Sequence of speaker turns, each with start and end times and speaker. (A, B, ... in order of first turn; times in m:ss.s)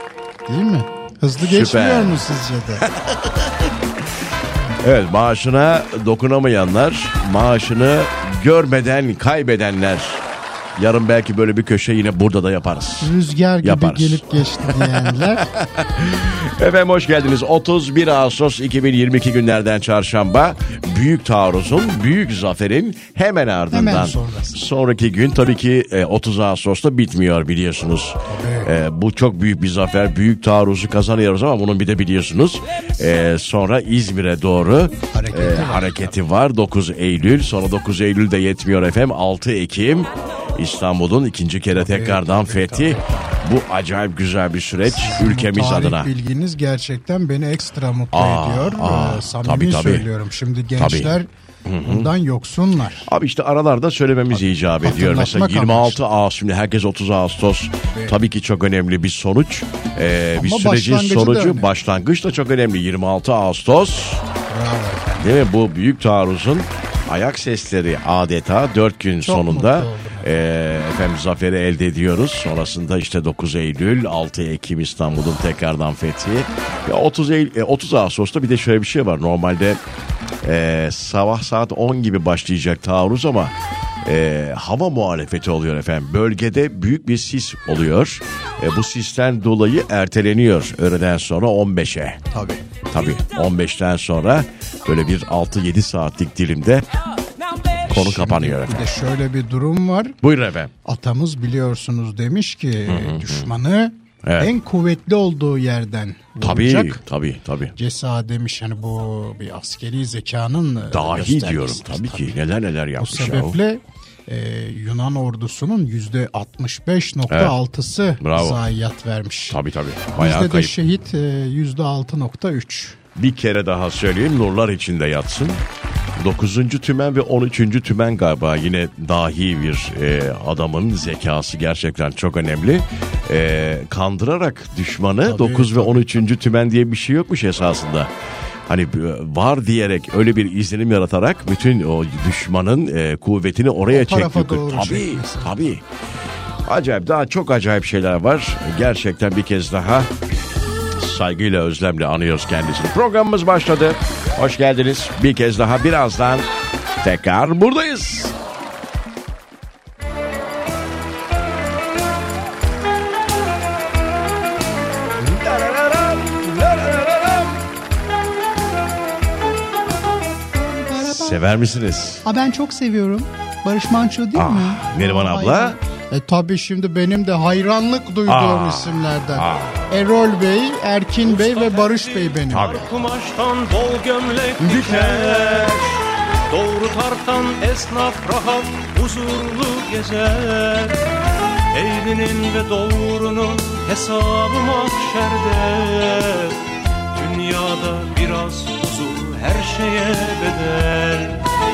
0:00.5-0:02.9 A
0:01.4-0:02.2 B
0:03.0-0:03.5 B
0:04.8-0:10.2 B
0:10.8-0:13.1 B
0:13.0-0:15.5 A
0:13.6-0:46.1 B
0:23.7-0:24.6 A
0:28.3-0:28.7 A
0:35.1-0:36.2 A
0:41.7-0:43.4 A
0:44.8-0:51.3 A
0:48.1-0:50.1 B
0:50.8-0:51.1 B
0:51.7-0:52.1 B
0:51.8-0:53.1 A
0:53.1-1:04.2 B
0:54.8-0:56.0 A
0:57.9-0:58.2 A
1:00.4-1:01.7 A
1:04.5-1:05.4 A
1:05.2-1:19.8 B
1:09.2-1:10.3 A
1:20.4-1:23.5 B
1:24.0-1:32.2 B
1:32.3-1:32.6 A
1:32.9-1:36.9 B
1:37.8-1:38.8 B
1:37.9-1:40.2 A
1:40.2-1:40.7 B
1:40.8-1:47.0 A
1:42.9-1:43.5 B
1:44.2-1:44.5 B
1:46.4-1:47.8 B
1:47.8-1:52.3 A
1:50.9-1:53.6 B
1:53.0-1:59.6 A
1:57.3-1:57.6 B
1:58.2-1:58.6 B
1:59.5-2:00.7 B
2:00.2-2:03.0 A
2:03.2-2:05.6 B
2:06.2-2:18.1 B
2:15.2-2:16.2 A
2:18.7-2:25.8 B
2:23.9-2:25.7 A
2:26.6-2:30.1 B
2:31.0-2:36.5 B
2:37.0-2:38.3 B
2:45.2-2:47.6 B
2:50.6-2:51.4 A
2:51.0-2:52.2 B
2:52.2-3:02.8 A
2:54.3-2:55.8 B
2:58.2-2:59.8 B
3:01.2-3:11.0 C
3:02.5-3:02.9 B
3:04.6-3:05.8 B
3:11.7-3:16.6 C
3:17.1-3:21.4 C